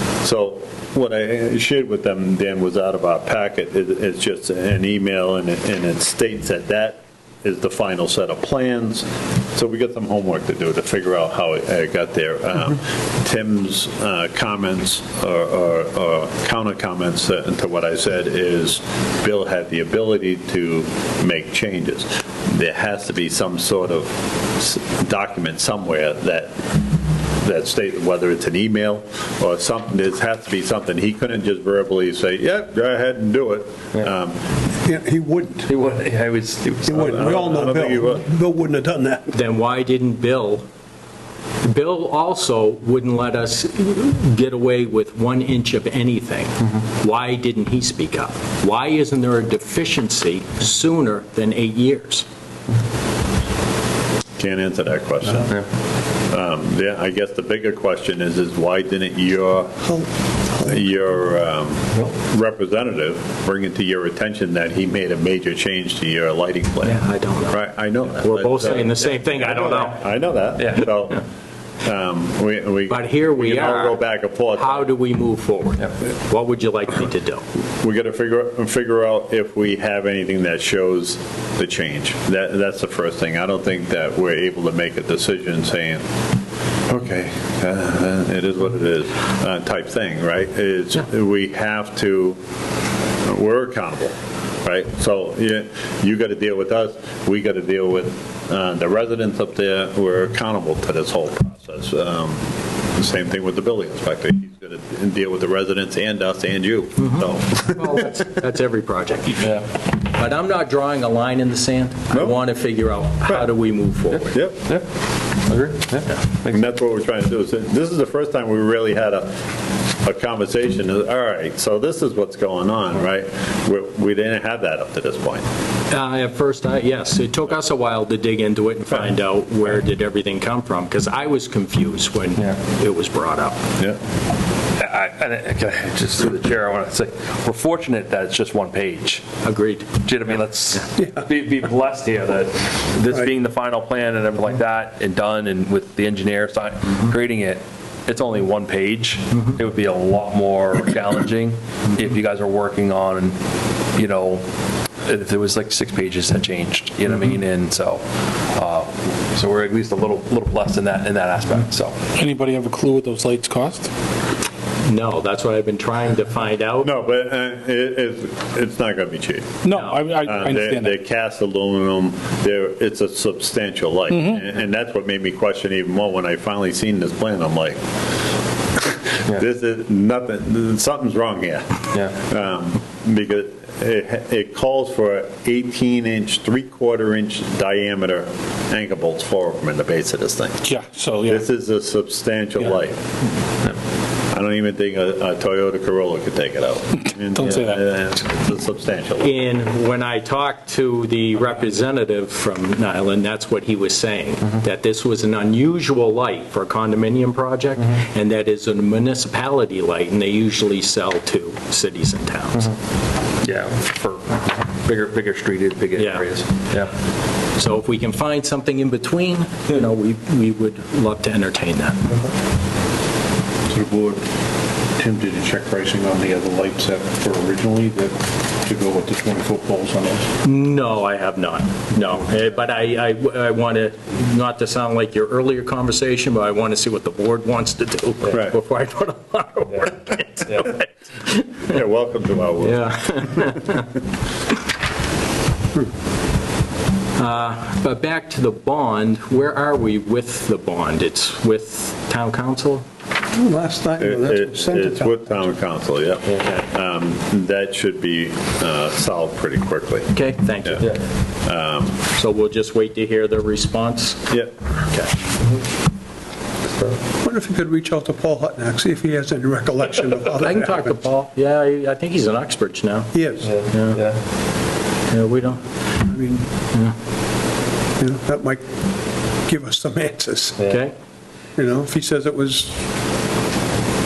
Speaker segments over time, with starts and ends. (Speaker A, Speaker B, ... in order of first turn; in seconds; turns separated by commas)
Speaker A: 0.2-26.6, Speaker A: 27.4-34.4, Speaker B: 34.8-35.7, Speaker C: 35.7-37.7, Speaker B: 36.8-39.3, Speaker A: 37.0-38.2, Speaker D: 39.3-40.6, Speaker D: 41.6-52.2, Speaker A: 54.4-55.6, Speaker A: 56.3-59.9, Speaker A: 60.6-71.2, Speaker D: 66.8-67.6, Speaker D: 68.2-70.0, Speaker C: 69.5-69.9, Speaker C: 70.6-70.9, Speaker A: 71.8-74.9, Speaker D: 72.9-74.0, Speaker D: 74.5-77.4, Speaker A: 77.8-86.0, Speaker A: 86.9-92.4, Speaker A: 93.2-108.2, Speaker D: 107.0-114.3, Speaker A: 112.1-112.4, Speaker C: 114.1-116.6, Speaker A: 114.3-114.6, Speaker A: 116.5-119.3, Speaker A: 120.0-125.4, Speaker D: 125.9-133.6, Speaker C: 134.8-139.3, Speaker D: 139.4-140.4, Speaker C: 140.0-153.4, Speaker C: 153.9-154.4, Speaker C: 155.0-162.1, Speaker E: 162.1-163.9, Speaker D: 164.8-166.9, Speaker A: 166.8-169.6, Speaker E: 169.6-170.9, Speaker D: 169.7-170.0, Speaker A: 170.2-177.8, Speaker E: 174.1-174.4, Speaker A: 178.8-190.6, Speaker E: 190.6-191.4, Speaker A: 191.2-193.0, Speaker A: 194.3-199.3, Speaker E: 197.3-197.8, Speaker D: 199.2-212.7, Speaker C: 213.4-216.9, Speaker D: 215.9-216.4, Speaker D: 217.6-222.0, Speaker F: 223.7-224.2, Speaker F: 225.0-230.4, Speaker D: 230.4-241.8, Speaker A: 241.7-242.9, Speaker D: 242.6-244.0, Speaker D: 247.2-252.8, Speaker B: 253.3-255.4, Speaker A: 254.0-260.1, Speaker D: 260.1-261.0, Speaker A: 261.4-262.0, Speaker D: 262.1-264.3, Speaker C: 266.7-267.0, Speaker B: 267.2-270.9, Speaker D: 270.4-273.1, Speaker B: 273.1-273.5, Speaker C: 273.4-274.2, Speaker D: 273.7-274.0, Speaker D: 275.1-276.0, Speaker B: 276.1-276.4, Speaker B: 278.0-278.6, Speaker B: 279.4-280.6, Speaker D: 280.7-280.9, Speaker B: 281.6-282.8